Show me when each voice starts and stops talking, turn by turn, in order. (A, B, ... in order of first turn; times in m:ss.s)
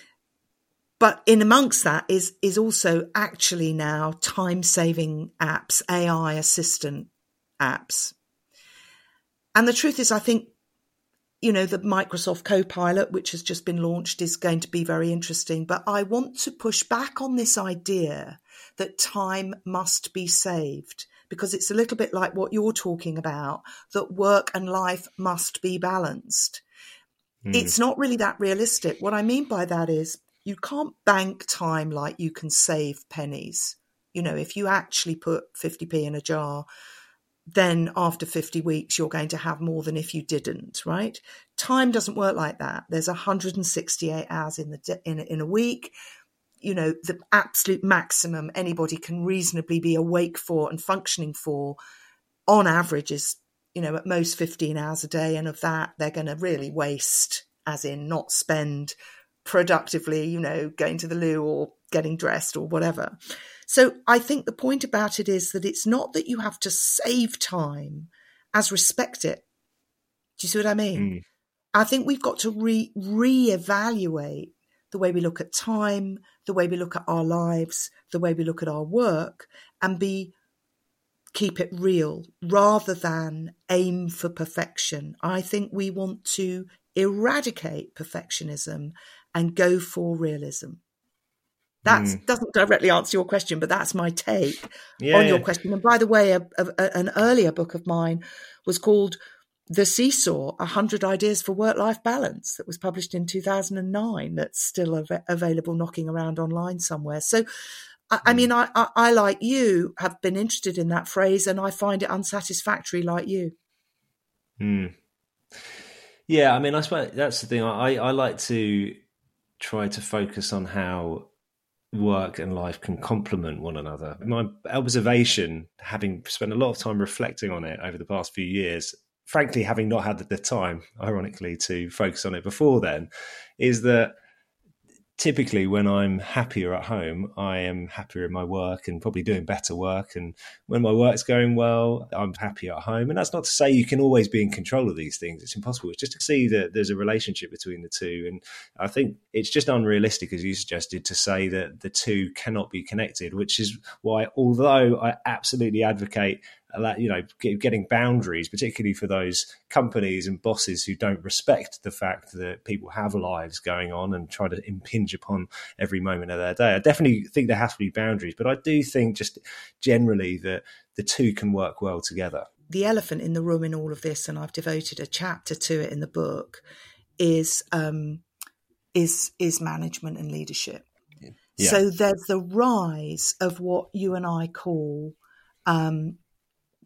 0:01.0-0:08.1 A
0:09.5-0:10.5 A
0:11.4-0:26.6 A
0:27.4-0:27.7 B
0:27.5-0:36.6 A
0:37.5-0:45.9 A
0:46.6-0:51.8 A
0:52.5-1:03.2 A
1:03.7-1:09.4 A
1:10.4-1:11.1 A
1:11.0-1:11.2 B
1:11.7-1:20.3 A
1:21.3-1:30.8 A
1:31.8-1:39.2 A
1:31.9-1:32.2 B
1:35.0-1:35.4 B
1:39.7-1:47.4 A
1:48.1-1:53.5 A
1:54.6-1:54.9 B
1:56.3-1:59.0 B
1:59.6-2:01.3 B
2:01.9-2:14.1 B
2:15.2-2:52.5 B
2:52.7-2:56.6 A
2:57.2-2:58.2 A
2:58.9-3:00.8 A
3:01.6-3:05.2 A
3:05.7-3:06.2 A